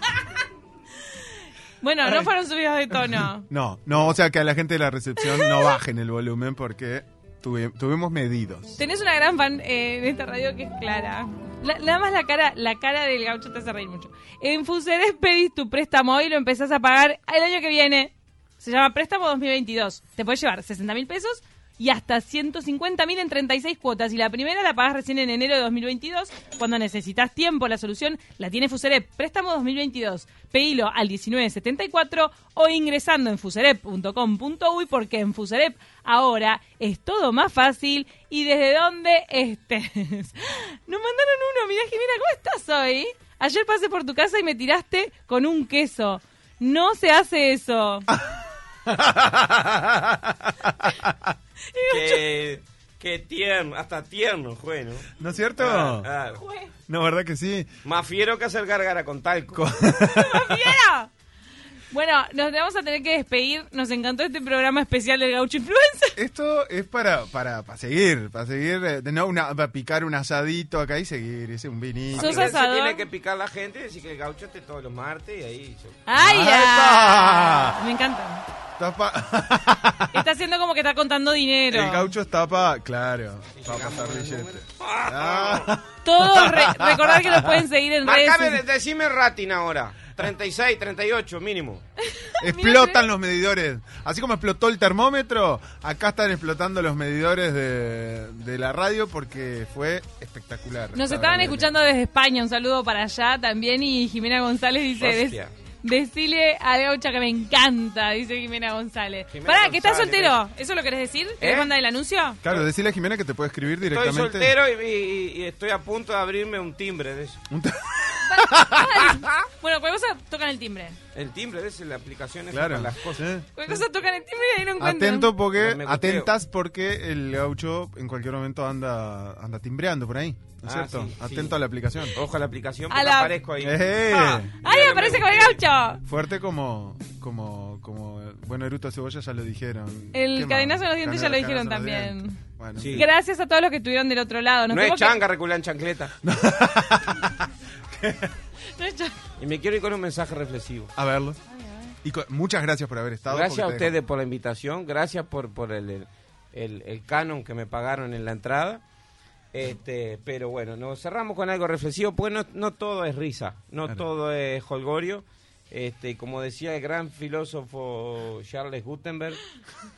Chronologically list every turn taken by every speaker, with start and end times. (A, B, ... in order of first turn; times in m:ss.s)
0:01.8-0:03.5 A
0:03.1-0:08.8 B
0:05.3-0:05.8 A
0:08.8-0:48.1 A
0:48.1-0:51.4 B
0:51.7-0:52.2 A
0:51.9-0:56.4 C
0:55.2-0:56.1 B
0:56.4-0:56.7 A
0:56.9-0:57.7 B
0:57.8-0:59.7 C
0:59.5-1:00.8 B
0:59.9-1:01.1 A
1:01.9-1:06.2 A
1:06.2-1:12.6 B
1:12.2-1:16.0 C
1:12.2-1:13.0 A
1:16.1-1:18.4 A
1:16.2-1:17.8 B
1:18.8-1:20.3 B
1:20.1-1:22.1 A
1:21.7-1:27.6 B
1:23.6-1:25.8 C
1:26.0-1:28.6 A
1:28.0-1:31.8 C
1:32.0-1:33.0 A
1:32.4-1:41.7 B
1:40.9-1:52.4 A
1:45.0-1:45.5 C
1:49.3-1:50.4 C
1:51.4-1:51.7 C
1:52.4-1:54.5 B
1:53.9-1:57.4 C
1:57.5-1:59.3 B
1:58.2-2:01.0 A
2:01.2-2:03.3 C
2:02.5-2:03.8 B
2:03.6-2:05.3 A
2:04.8-2:12.2 B
2:05.6-2:06.3 C
2:10.6-2:11.6 C
2:12.1-2:14.0 C
2:12.9-2:13.4 A
2:13.6-2:14.5 B
2:14.1-2:16.0 A
2:14.6-2:15.6 C
2:16.0-2:23.1 B
2:20.1-2:22.4 A
2:22.8-2:23.1 C
2:22.9-2:25.2 A
2:24.7-2:26.1 C
2:26.2-2:28.3 B
2:28.8-2:29.2 A
2:29.4-2:30.9 C
2:31.0-2:31.4 B
2:31.5-2:31.9 A
2:32.0-2:33.9 B
2:33.3-2:38.8 C
2:39.5-2:49.4 C